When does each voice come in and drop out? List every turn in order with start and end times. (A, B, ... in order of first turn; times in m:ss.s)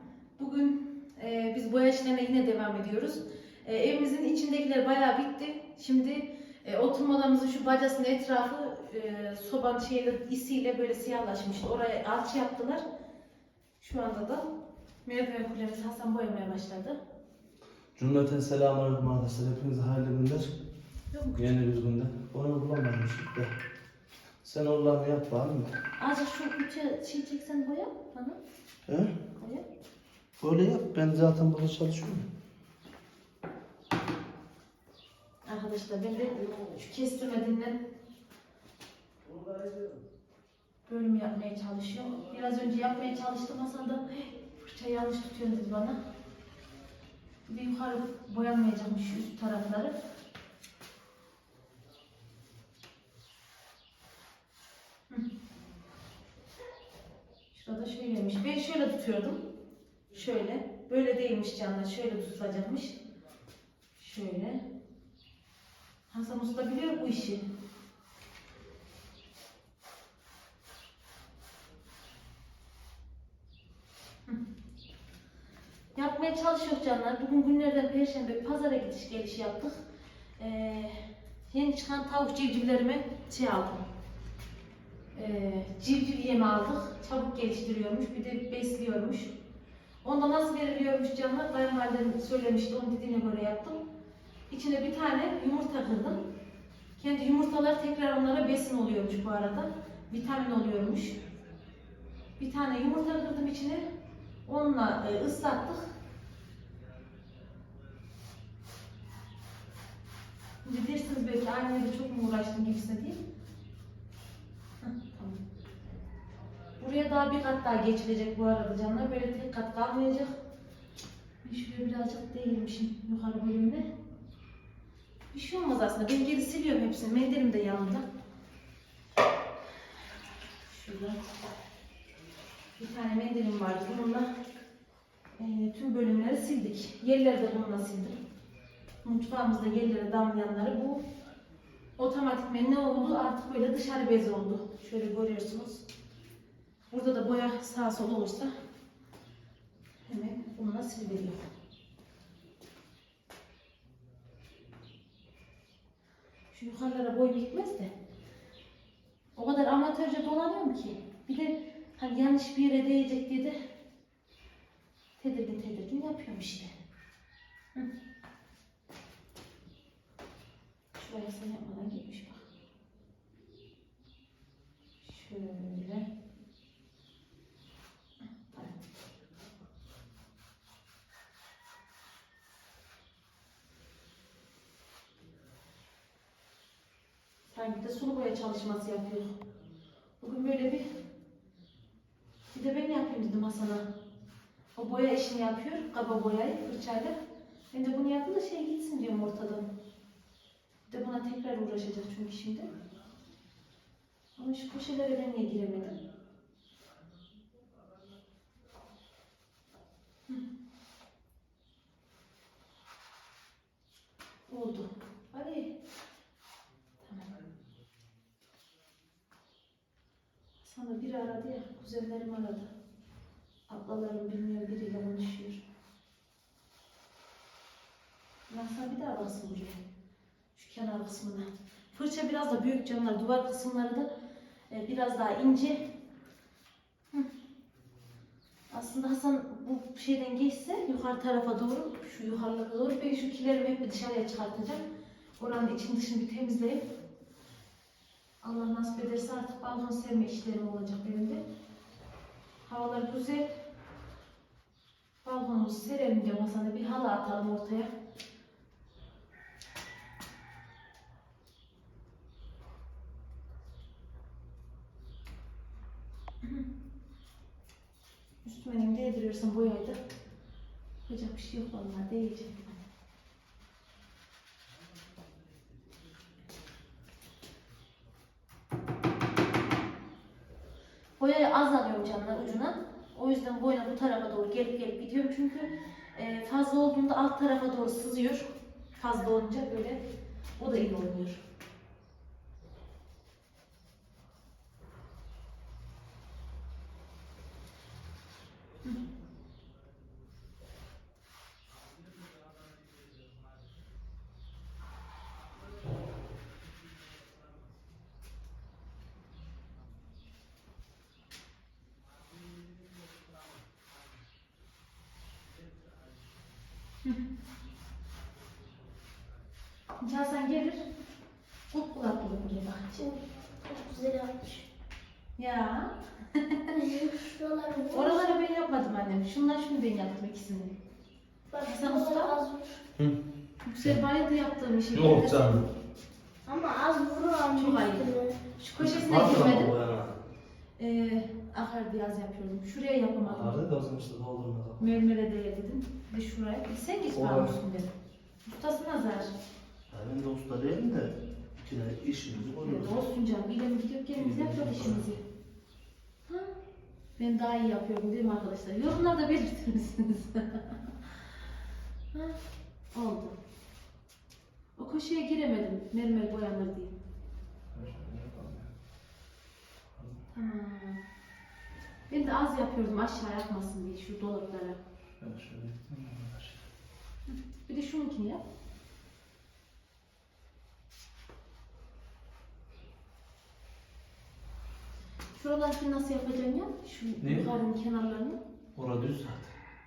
0:00.4-0:12.8 A
0:13.8-0:14.5 A
0:15.1-0:17.0 A
0:18.0-0:20.5 B
0:21.1-0:21.5 A
0:21.4-0:23.5 B
0:24.4-0:25.7 B
0:26.0-0:28.4 A
0:28.9-0:29.1 B
0:29.4-0:29.6 A
0:30.4-0:32.3 B
0:35.5-0:37.8 A
0:36.4-0:36.7 B
0:39.2-0:40.0 B
0:40.9-0:46.0 A
0:47.5-0:50.0 A
0:57.5-0:59.4 A
1:00.1-1:03.0 A
1:04.0-1:04.6 A
1:06.1-1:07.4 A
1:16.0-1:19.8 A
1:20.4-1:23.8 A
1:25.2-1:29.3 A
1:30.0-1:33.8 A
1:34.5-1:36.2 A
1:37.0-1:41.2 A
1:42.4-1:43.8 A
1:44.5-1:45.9 A
1:50.6-1:53.2 A
1:54.8-1:55.4 A
1:56.8-2:00.3 A
2:01.4-2:03.9 A
2:05.3-2:08.1 A
2:10.7-2:11.2 A
2:12.8-2:14.3 A
2:15.4-2:18.2 A
2:19.0-2:21.0 A
2:22.0-2:25.8 A
2:26.9-2:28.6 A
2:30.1-2:31.4 A
2:36.5-2:37.9 A
2:39.4-2:43.6 A
2:45.2-2:46.7 A
2:51.0-2:52.4 A
2:55.0-2:56.1 A
3:07.5-3:09.4 A
3:10.2-3:10.9 A
3:12.5-3:13.9 A
3:14.8-3:17.2 A
3:17.7-3:19.7 A
3:20.9-3:22.7 A
3:24.4-3:26.0 A
3:34.5-3:35.7 A
3:37.0-3:37.3 A
3:40.6-3:42.7 A
3:43.7-3:45.6 A
3:48.5-3:49.8 A
3:50.6-3:54.1 A
3:54.7-3:55.9 A
3:58.7-4:04.8 A
4:05.4-4:06.8 A
4:08.4-4:11.4 A
4:12.7-4:13.6 A
4:15.2-4:17.9 A
4:28.4-4:30.0 A
4:31.1-4:32.8 A
4:41.2-4:50.0 A
4:50.6-4:51.4 A
5:20.0-5:20.8 A
5:21.7-5:23.1 A
5:23.6-5:24.7 C
5:25.4-5:26.8 A
5:26.7-5:28.3 C
5:27.9-5:30.8 A
5:31.5-5:32.8 C
5:31.7-5:32.3 A
5:33.6-5:35.6 A
5:34.9-5:35.6 B
5:36.5-5:38.4 C
5:37.6-5:38.0 A
5:38.6-5:39.7 A
5:38.8-5:40.2 B
5:40.8-5:43.6 A
5:43.2-5:44.8 B
5:44.8-5:47.9 A
5:47.1-5:47.6 B
5:48.4-5:49.3 A
5:49.9-5:53.0 B
5:52.6-5:55.2 A
5:54.2-5:55.0 B
5:56.3-5:56.5 A
5:57.2-6:00.8 A
6:02.9-6:03.4 A
6:04.8-6:06.9 A
6:07.7-6:08.7 B
6:10.0-6:10.2 B
6:10.3-6:11.0 A
6:12.1-6:14.8 A
6:15.2-6:16.7 B
6:17.3-6:18.4 A
6:25.4-6:28.4 A
6:27.2-6:27.5 B
6:28.8-6:29.5 B